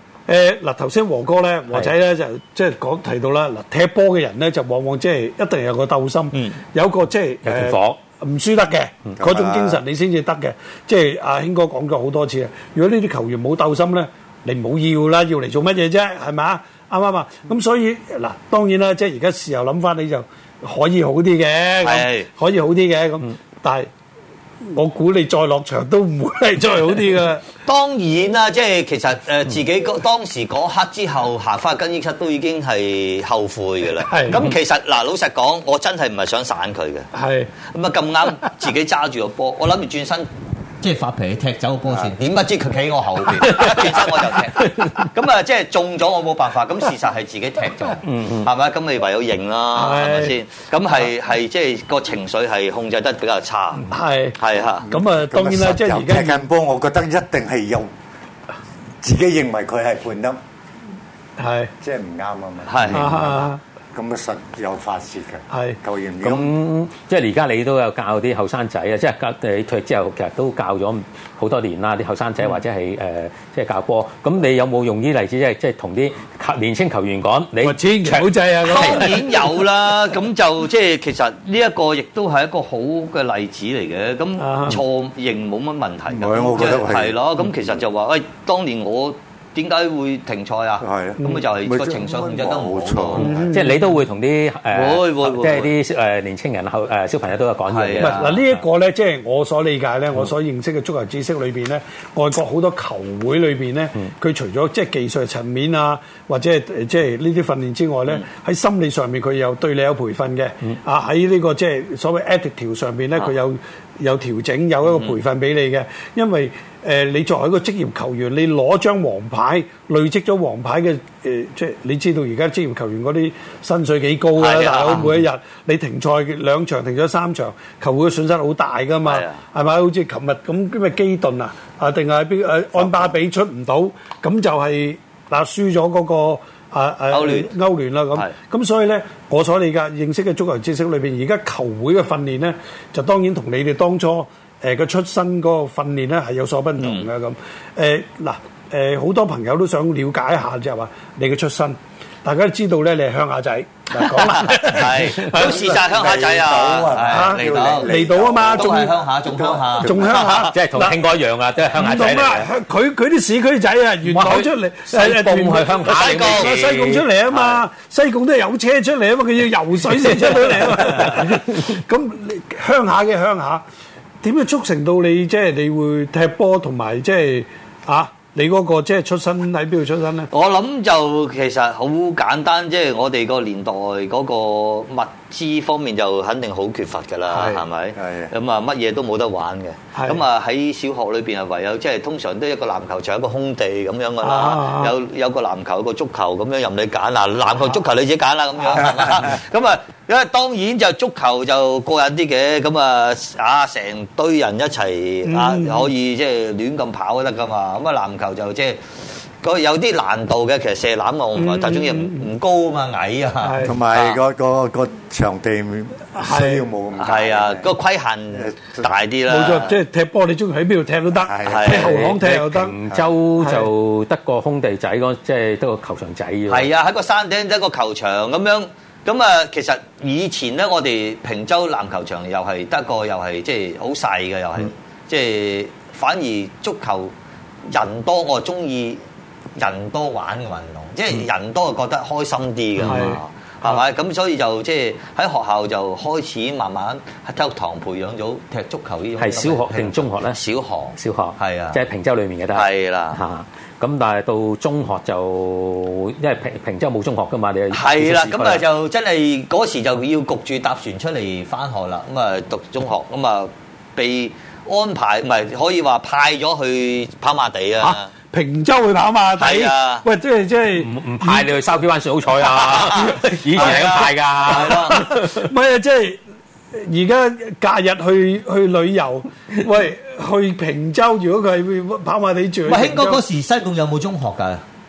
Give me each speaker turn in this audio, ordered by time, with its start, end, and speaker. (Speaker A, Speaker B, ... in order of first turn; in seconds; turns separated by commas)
Speaker A: 0.3-23.9, Speaker B: 7.4-8.0, Speaker C: 9.2-9.8, Speaker D: 21.8-22.3, Speaker A: 24.7-27.4, Speaker D: 27.6-37.1, Speaker A: 34.0-34.4, Speaker A: 37.1-37.5, Speaker D: 37.7-40.3, Speaker D: 40.8-54.9, Speaker B: 43.5-45.0, Speaker B: 48.0-48.5, Speaker A: 49.7-50.3, Speaker A: 53.9-54.4, Speaker C: 54.8-57.9, Speaker A: 54.9-56.4, Speaker C: 59.0-60.4, Speaker A: 61.4-61.7, Speaker C: 61.8-66.5, Speaker D: 62.6-63.1, Speaker A: 62.9-63.6, Speaker A: 65.5-65.8, Speaker B: 66.2-79.1, Speaker A: 77.6-79.4, Speaker D: 78.6-93.3, Speaker A: 84.4-84.8, Speaker C: 86.1-87.2, Speaker C: 90.8-93.5, Speaker A: 91.2-91.4, Speaker B: 93.2-98.6, Speaker A: 93.2-93.8, Speaker D: 94.7-95.7, Speaker D: 97.7-98.2, Speaker A: 98.0-155.7, Speaker D: 114.9-115.1, Speaker D: 124.4-125.2, Speaker D: 129.0-129.4, Speaker D: 137.1-137.5, Speaker D: 146.8-147.1, Speaker D: 153.9-157.9, Speaker C: 155.3-160.3, Speaker A: 157.1-158.9, Speaker D: 158.5-160.5, Speaker A: 159.8-161.0, Speaker B: 160.5-162.5, Speaker A: 161.7-173.6, Speaker B: 164.0-167.6, Speaker D: 165.8-166.6, Speaker A: 174.2-180.3, Speaker D: 180.3-208.8, Speaker A: 187.3-187.6, Speaker C: 187.9-188.3, Speaker A: 189.9-190.2, Speaker A: 194.2-194.9, Speaker A: 198.6-198.9, Speaker A: 205.2-205.9, Speaker D: 209.4-214.2, Speaker A: 211.3-212.3, Speaker A: 213.4-213.7, Speaker C: 213.6-217.7, Speaker A: 216.2-216.6, Speaker D: 217.0-219.8, Speaker C: 218.3-218.9, Speaker A: 219.3-222.7, Speaker C: 221.1-222.0, Speaker D: 221.4-221.9, Speaker B: 221.7-226.7, Speaker A: 223.4-223.7, Speaker D: 226.5-237.1, Speaker D: 237.7-239.0, Speaker D: 239.6-251.8, Speaker B: 242.8-243.2, Speaker A: 242.8-243.2, Speaker B: 249.2-250.4, Speaker B: 250.9-258.6, Speaker D: 252.5-253.2, Speaker D: 257.7-268.1, Speaker A: 267.8-271.5, Speaker D: 269.4-270.1, Speaker B: 270.7-275.5, Speaker D: 272.4-275.1, Speaker A: 274.5-276.2, Speaker A: 276.7-283.2, Speaker D: 282.6-284.6